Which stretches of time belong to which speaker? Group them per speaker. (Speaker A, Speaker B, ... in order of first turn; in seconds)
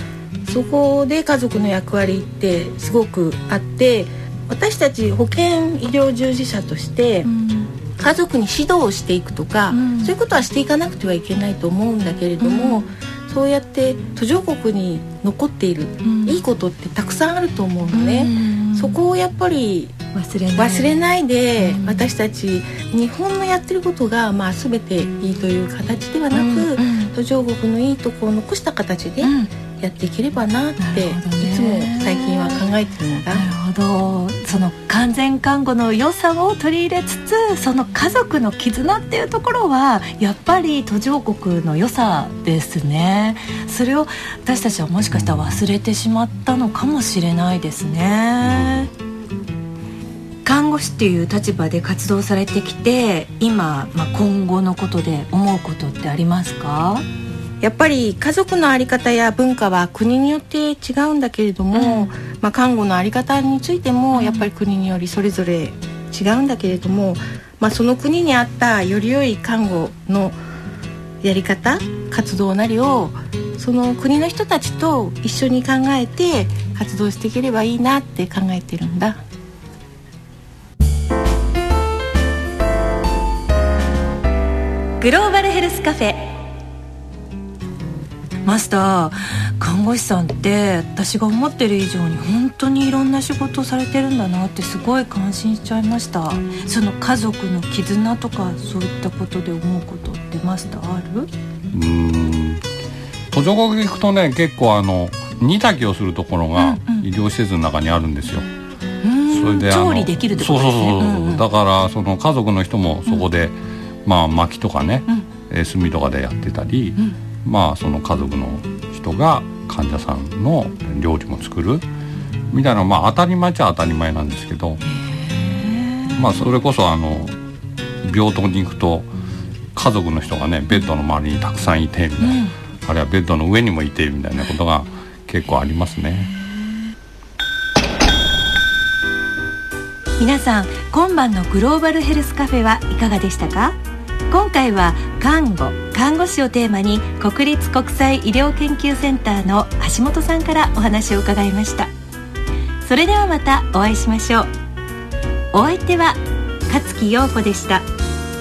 Speaker A: 0.5-7.3, 8.0-20.0, 20.6-33.5, 57.6-70.4, 71.2-79.2
Speaker B: 7.2-7.7, 9.7-10.2, 12.4-12.9, 16.0-16.4, 17.9-19.0, 20.1-21.0, 21.6-22.1, 26.3-27.1, 29.2-29.5, 30.8-32.6, 33.3-48.9, 50.5-57.0, 61.7-62.1, 64.1-64.5, 85.0-86.3, 88.5-101.3, 106.6-107.1, 109.0-111.5, 125.0-126.3, 132.2-132.5, 140.2-143.8, 144.3-151.9, 152.8-154.5, 155.5-157.9
Speaker C: 48.4-48.9, 101.7-102.6, 103.3-108.5, 109.3-121.8, 122.5-124.8, 126.2-127.4, 128.0-129.1, 129.7-136.3